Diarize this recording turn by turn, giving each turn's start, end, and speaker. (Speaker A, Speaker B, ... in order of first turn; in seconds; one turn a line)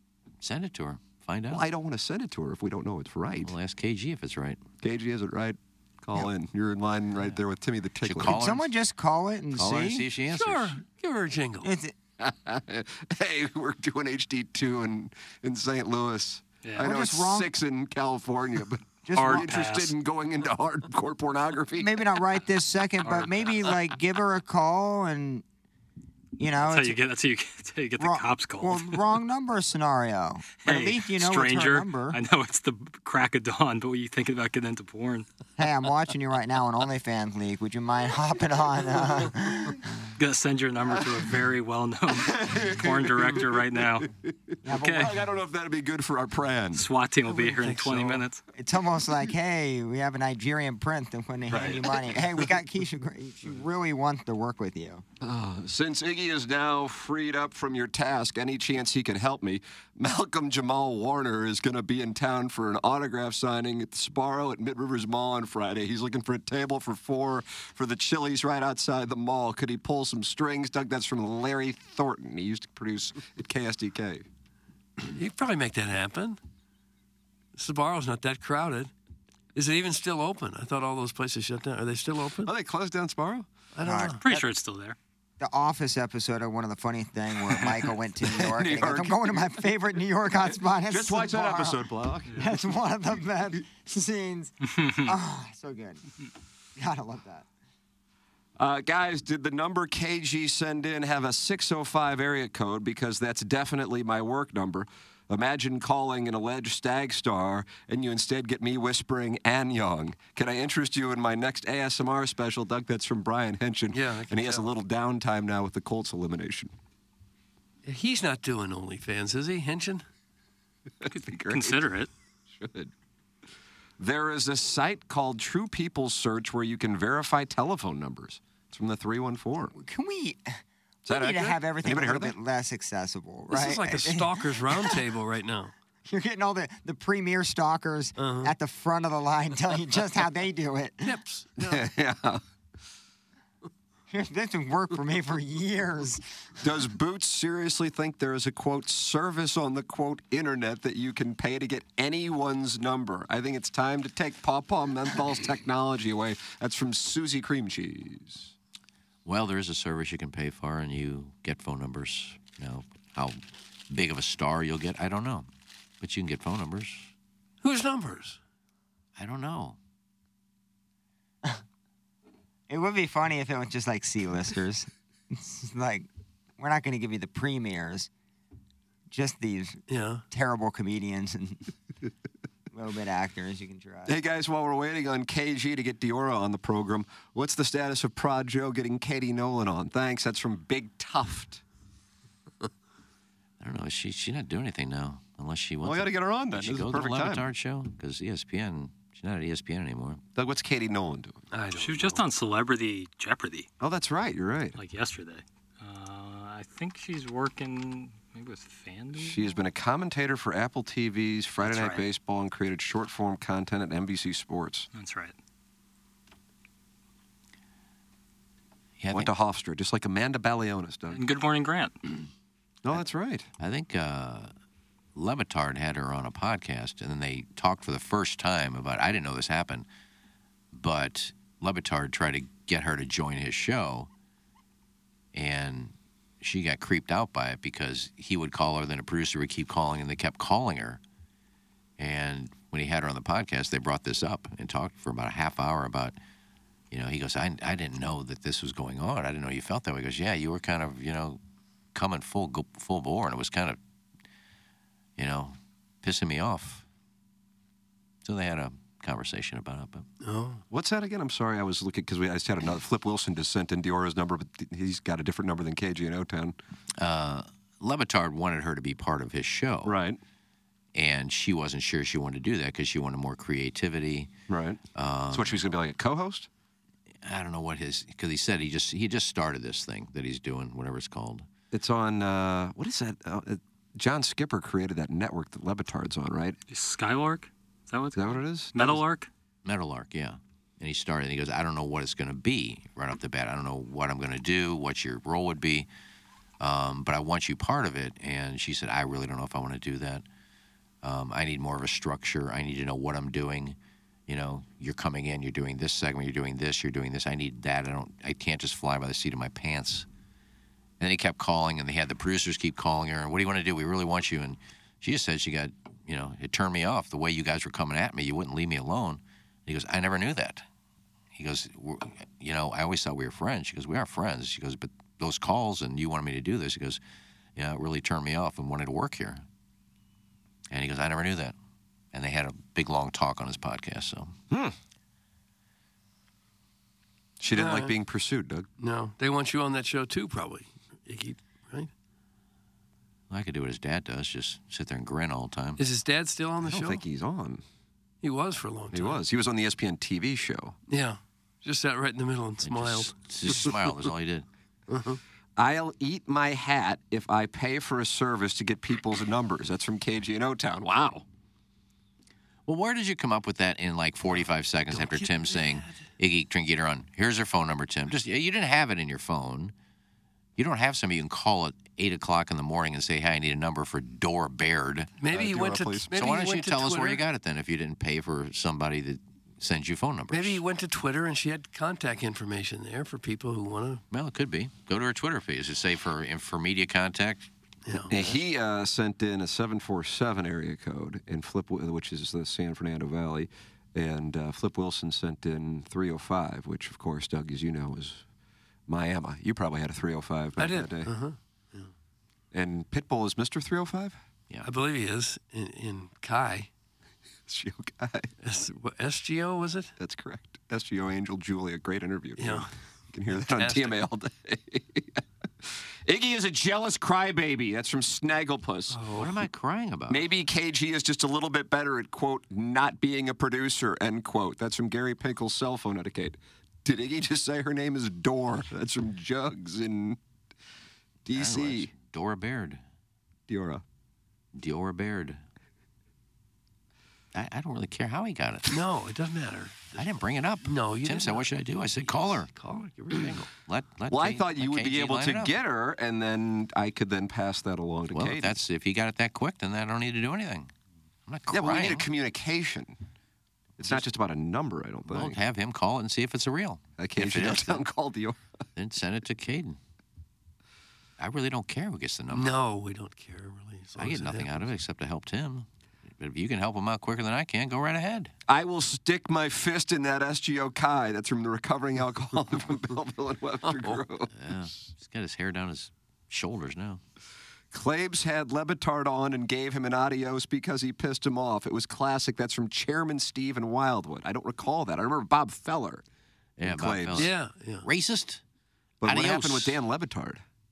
Speaker A: 0.4-1.6
Speaker B: 1.5-3.5
Speaker A: 3.4-4.6
Speaker B: 4.8-8.4
Speaker A: 8.0-8.7
Speaker C: 8.2-10.1
Speaker A: 9.5-10.8
Speaker D: 10.3-11.7
Speaker C: 11.6-11.9
Speaker B: 12.2-21.9
Speaker E: 16.6-16.9
Speaker C: 16.8-17.5
Speaker C: 19.1-19.5
Speaker E: 19.1-19.9
Speaker C: 21.8-25.4
Speaker E: 23.0-23.7
Speaker C: 26.4-27.0
Speaker E: 26.6-29.0
Speaker C: 28.0-32.2
Speaker E: 30.6-35.2
Speaker C: 35.6-39.9
Speaker E: 40.2-44.1
Speaker B: 42.1-46.9
Speaker C: 44.6-45.2
Speaker E: 44.7-45.1
Speaker E: 46.7-48.4
Speaker D: 47.3-48.2
Speaker C: 48.5-55.0
Speaker B: 51.5-51.8
Speaker B: 55.2-74.2
Speaker D: 75.1-76.4
Speaker D: 77.5-78.9
Speaker D: 79.5-82.5
Speaker B: 82.4-83.5
Speaker D: 83.7-84.2
Speaker C: 83.8-84.2
Speaker E: 84.2-85.0
Speaker C: 85.4-96.0
Speaker B: 88.2-89.6
Speaker B: 90.9-92.5
Speaker E: 94.8-95.0
Speaker C: 96.8-97.5
Speaker B: 98.6-116.7
Speaker D: 113.9-114.7
Speaker D: 117.8-120.0
Speaker B: 121.0-121.8
Speaker E: 121.1-122.1
Speaker B: 122.5-122.9
Speaker B: 124.0-129.7
Speaker C: 129.7-135.0
Speaker B: 131.1-132.3
Speaker D: 133.5-135.7
Speaker C: 136.1-141.2
Speaker D: 138.2-138.5
Speaker D: 141.0-141.8
Speaker B: 141.6-142.4
Speaker C: 144.1-146.2
Speaker B: 146.6-158.5
Speaker A: 159.2-165.5
Speaker A: 166.0-167.1
Speaker D: 167.6-168.4
Speaker A: 169.2-169.8
Speaker C: 172.7-178.1
Speaker C: 179.1-181.7
Speaker D: 179.9-180.2
Speaker C: 182.7-184.2
Speaker B: 184.1-191.6
Speaker A: 193.6-200.2
Speaker B: 195.8-197.5
Speaker B: 200.3-201.4
Speaker D: 201.5-202.2
Speaker E: 201.7-203.7
Speaker B: 203.8-204.8
Speaker E: 204.7-209.6
Speaker B: 209.2-214.9
Speaker E: 211.6-212.1
Speaker E: 214.9-215.3
Speaker A: 219.0-219.3
Speaker B: 219.1-221.2
Speaker E: 221.1-222.0
Speaker B: 222.8-223.5
Speaker A: 223.6-224.5
Speaker A: 225.1-229.8
Speaker A: 230.7-234.1
Speaker A: 235.3-241.0
Speaker A: 242.0-246.2
Speaker A: 246.9-251.4
Speaker A: 251.9-253.8
Speaker A: 255.2-256.8
Speaker A: 258.2-260.0
Speaker D: 260.2-260.6
Speaker B: 260.7-266.6
Speaker A: 267.0-269.9
Speaker B: 269.8-270.2
Speaker A: 270.9-274.3
Speaker B: 274.5-276.5
Speaker A: 274.9-275.6
Speaker A: 277.2-281.4
Speaker B: 281.7-286.6
Speaker E: 286.7-289.3
Speaker B: 288.1-289.0
Speaker A: 289.6-295.9
Speaker A: 296.6-300.2
Speaker A: 301.0-303.8
Speaker A: 304.3-310.1
Speaker A: 311.0-320.6
Speaker A: 321.3-327.0
Speaker A: 327.6-329.4
Speaker A: 330.7-331.5
Speaker A: 332.1-334.3
Speaker B: 337.4-338.7
Speaker D: 337.5-337.9
Speaker D: 338.8-341.9
Speaker A: 343.3-345.8
Speaker D: 345.8-347.0
Speaker B: 346.6-347.6
Speaker D: 348.2-349.2
Speaker B: 348.9-350.8
Speaker D: 350.9-353.7
Speaker A: 352.6-354.4
Speaker D: 354.9-355.2
Speaker B: 355.6-361.2
Speaker A: 362.6-369.7
Speaker D: 364.9-366.0
Speaker A: 370.6-375.1
Speaker D: 375.2-377.2
Speaker B: 375.3-376.1
Speaker A: 376.1-380.6
Speaker D: 380.3-384.0
Speaker A: 384.1-387.5
Speaker D: 387.8-388.3
Speaker B: 388.1-398.2
Speaker B: 398.9-401.1
Speaker D: 400.6-401.9
Speaker B: 402.5-404.2
Speaker D: 404.6-406.7
Speaker B: 407.5-408.3
Speaker D: 408.4-409.9
Speaker B: 410.0-419.0
Speaker D: 412.4-412.7
Speaker D: 413.3-414.0
Speaker D: 418.9-419.4
Speaker A: 419.1-420.2
Speaker B: 420.1-430.2
Speaker B: 431.2-431.9
Speaker A: 431.3-432.8
Speaker B: 433.5-433.8
Speaker A: 434.5-435.4
Speaker A: 437.3-438.8
Speaker D: 438.7-440.0
Speaker A: 439.9-442.5
Speaker D: 440.6-443.5
Speaker A: 443.1-445.6
Speaker B: 444.1-448.6
Speaker A: 448.1-450.7
Speaker A: 451.3-452.1
Speaker B: 451.5-452.9
Speaker B: 453.8-455.4
Speaker A: 455.1-457.8
Speaker B: 457.0-458.4
Speaker A: 458.7-459.8
Speaker A: 461.2-462.5
Speaker D: 462.3-464.6
Speaker A: 464.0-465.7
Speaker A: 466.2-468.3
Speaker B: 468.5-474.3
Speaker D: 473.6-474.0
Speaker A: 474.3-477.0
Speaker B: 477.7-486.0
Speaker A: 486.6-488.4
Speaker B: 486.6-487.3
Speaker D: 487.1-487.9
Speaker B: 489.0-490.4
Speaker A: 489.0-489.8